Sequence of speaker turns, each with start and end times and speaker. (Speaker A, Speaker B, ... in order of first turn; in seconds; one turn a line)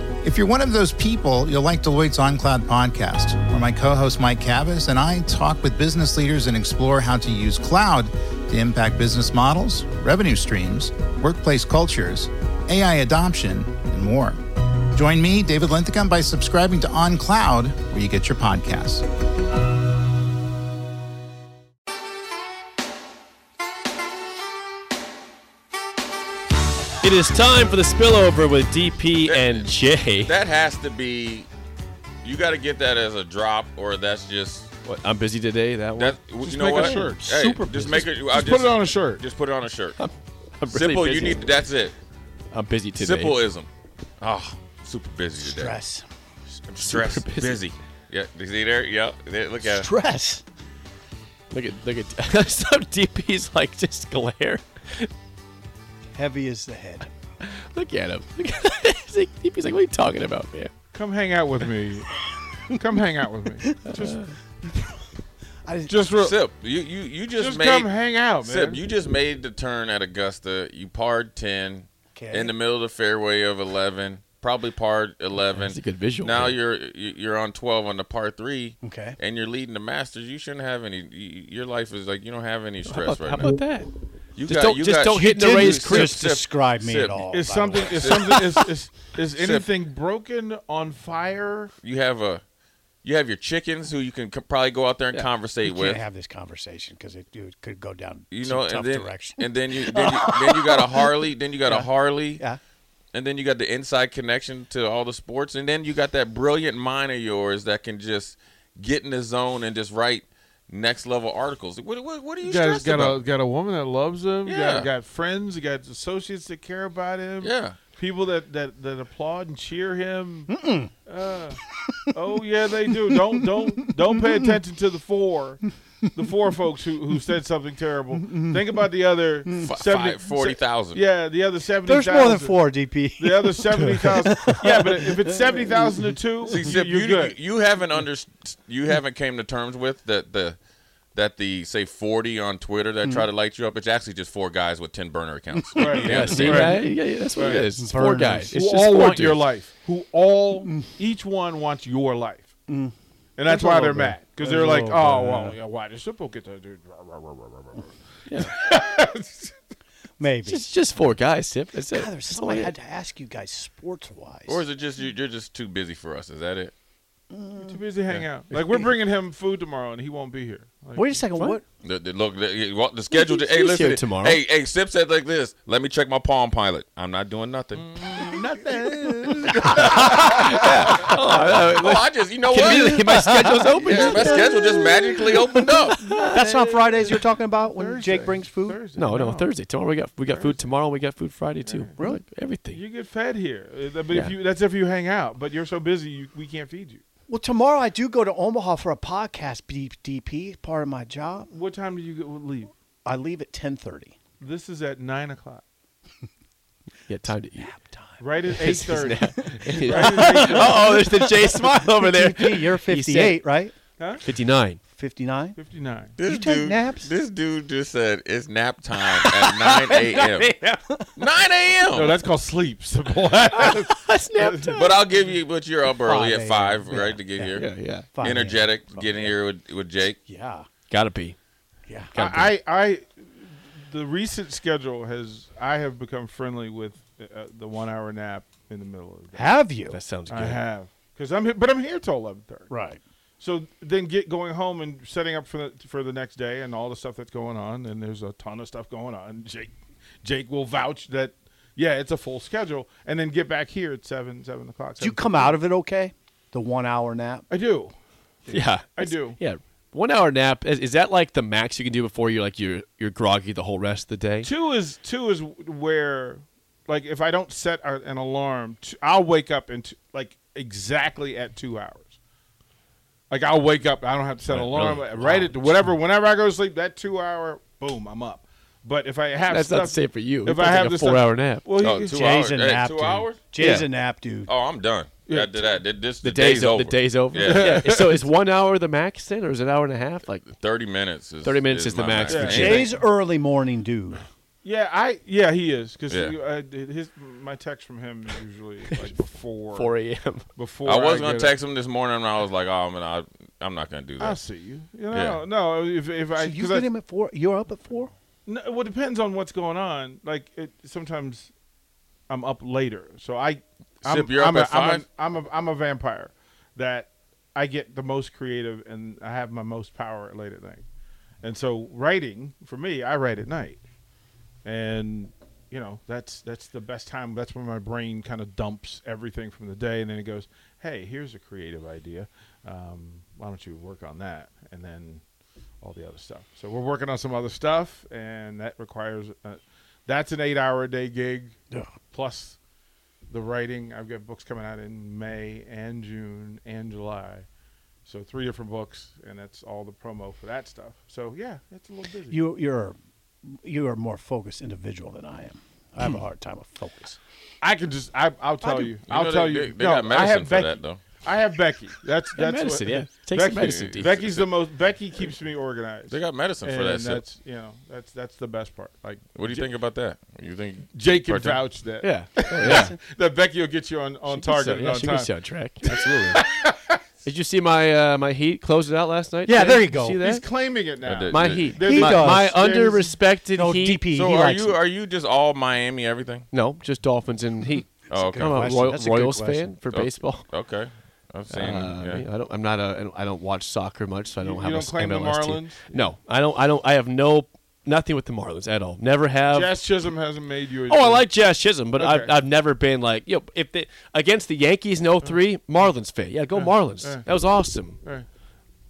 Speaker A: 0.2-19.1
Speaker B: 27.0-30.3
Speaker C: 29.2-31.5
Speaker C: 32.2-34.7
Speaker B: 34.8-36.2
Speaker C: 36.0-40.0
Speaker D: 36.4-37.2
Speaker E: 36.7-38.1
Speaker B: 37.7-38.1
Speaker D: 38.2-39.2
Speaker B: 40.0-41.6
Speaker C: 40.7-41.9
Speaker B: 42.5-43.4
Speaker C: 43.0-43.7
Speaker C: 44.2-45.8
Speaker E: 45.4-46.0
Speaker C: 46.7-49.9
Speaker B: 46.8-47.6
Speaker E: 49.6-50.4
Speaker B: 51.5-55.1
Speaker E: 56.1-57.1
Speaker B: 57.4-60.7
Speaker D: 60.9-62.1
Speaker D: 62.7-64.2
Speaker E: 63.6-63.9
Speaker B: 63.8-64.3
Speaker E: 65.7-65.9
Speaker D: 65.9-66.4
Speaker C: 66.1-83.6
Speaker D: 67.3-68.8
Speaker E: 72.1-72.5
Speaker B: 75.5-76.5
Speaker E: 78.8-79.2
Speaker B: 82.8-83.9
Speaker C: 84.4-88.5
Speaker B: 84.5-86.2
Speaker E: 85.0-88.4
Speaker D: 87.3-91.7
Speaker C: 89.3-89.6
Speaker C: 91.8-92.4
Speaker C: 93.0-96.0
Speaker E: 95.6-101.1
Speaker C: 98.3-102.4
Speaker E: 101.7-102.6
Speaker C: 103.1-113.2
Speaker D: 112.4-120.5
Speaker C: 114.4-114.9
Speaker C: 117.4-117.8
Speaker E: 120.5-120.9
Speaker D: 121.0-121.6
Speaker D: 122.1-125.6
Speaker E: 123.1-124.5
Speaker D: 126.1-132.6
Speaker E: 128.2-128.6
Speaker C: 129.6-131.0
Speaker E: 131.8-136.0
Speaker D: 133.2-137.4
Speaker C: 136.5-140.6
Speaker C: 141.1-146.8
Speaker E: 145.6-146.8
Speaker D: 145.8-146.8
Speaker B: 146.0-149.4
Speaker D: 147.3-147.7
Speaker E: 147.4-148.5
Speaker D: 148.5-152.5
Speaker E: 152.7-152.9
Speaker D: 153.4-159.5
Speaker E: 153.4-155.6
Speaker E: 160.2-160.6
Speaker B: 160.4-162.7
Speaker E: 161.9-164.6
Speaker C: 164.5-166.7
Speaker E: 167.3-167.8
Speaker D: 167.6-171.6
Speaker E: 170.9-171.6
Speaker C: 171.8-178.3
Speaker B: 173.1-174.4
Speaker D: 177.7-181.1
Speaker E: 178.2-180.7
Speaker C: 179.3-183.2
Speaker B: 179.7-184.7
Speaker E: 182.5-188.8
Speaker C: 183.8-186.1
Speaker B: 186.1-186.4
Speaker D: 186.1-189.5
Speaker B: 188.9-192.8
Speaker D: 190.3-190.6
Speaker D: 191.6-192.0
Speaker D: 192.7-197.0
Speaker E: 197.3-201.5
Speaker D: 201.5-202.7
Speaker E: 203.0-204.1
Speaker D: 204.4-205.6
Speaker B: 207.1-207.7
Speaker E: 207.6-213.7
Speaker D: 208.2-210.9
Speaker B: 208.6-213.4
Speaker D: 214.0-214.2
Speaker B: 214.2-214.8
Speaker E: 214.9-215.6
Speaker D: 215.6-216.1
Speaker C: 216.2-220.5
Speaker E: 216.2-217.2
Speaker E: 219.3-221.2
Speaker C: 221.2-222.2
Speaker D: 221.9-225.0
Speaker B: 223.5-225.0
Speaker C: 224.7-227.7
Speaker E: 225.9-229.3
Speaker B: 227.6-228.1
Speaker C: 228.2-230.2
Speaker E: 230.3-230.7
Speaker B: 230.9-231.3
Speaker E: 231.9-232.1
Speaker B: 232.1-232.5
Speaker D: 232.1-239.5
Speaker E: 239.3-240.0
Speaker B: 239.9-240.6
Speaker D: 240.3-242.7
Speaker E: 242.7-243.0
Speaker D: 243.4-255.5
Speaker E: 255.0-257.5
Speaker D: 257.5-257.9
Speaker D: 258.4-259.4
Speaker B: 258.5-264.5
Speaker D: 264.4-272.1
Speaker D: 273.3-282.3
Speaker B: 274.5-275.1
Speaker B: 279.5-281.6
Speaker C: 281.8-283.4
Speaker E: 282.0-284.5
Speaker B: 283.6-283.9
Speaker C: 284.5-287.9
Speaker D: 285.3-285.7
Speaker B: 286.2-290.5
Speaker D: 287.4-288.2
Speaker C: 290.5-292.9
Speaker B: 291.4-292.9
Speaker D: 292.3-292.9
Speaker E: 292.4-294.2
Speaker D: 294.6-299.9
Speaker C: 296.1-296.3
Speaker B: 299.7-300.5
Speaker D: 300.5-301.5
Speaker C: 300.8-304.4
Speaker D: 304.2-306.9
Speaker C: 305.1-305.4
Speaker E: 306.4-308.1
Speaker D: 308.4-311.5
Speaker D: 312.3-320.8
Speaker C: 314.0-315.0
Speaker D: 321.4-323.8
Speaker D: 324.6-335.2
Speaker D: 335.8-342.6
Speaker D: 343.3-347.5
Speaker D: 348.0-352.4
Speaker E: 352.3-357.2
Speaker D: 357.6-369.6
Speaker C: 359.0-361.0
Speaker B: 362.4-364.1
Speaker C: 363.6-364.4
Speaker C: 366.1-367.2
Speaker C: 369.4-371.6
Speaker D: 370.9-377.0
Speaker B: 372.0-372.9
Speaker E: 372.6-373.0
Speaker B: 374.3-376.4
Speaker B: 377.2-380.4
Speaker E: 379.5-380.2
Speaker D: 380.2-383.1
Speaker C: 381.0-381.7
Speaker B: 381.3-384.0
Speaker E: 381.8-382.6
Speaker E: 383.5-384.8
Speaker C: 384.1-386.5
Speaker B: 386.5-390.4
Speaker C: 388.1-388.7
Speaker E: 388.1-389.7
Speaker C: 389.9-392.2
Speaker B: 391.5-399.7
Speaker D: 394.4-396.1
Speaker D: 399.5-401.2
Speaker B: 400.9-408.0
Speaker D: 401.9-402.3
Speaker D: 406.5-407.3
Speaker D: 408.0-408.3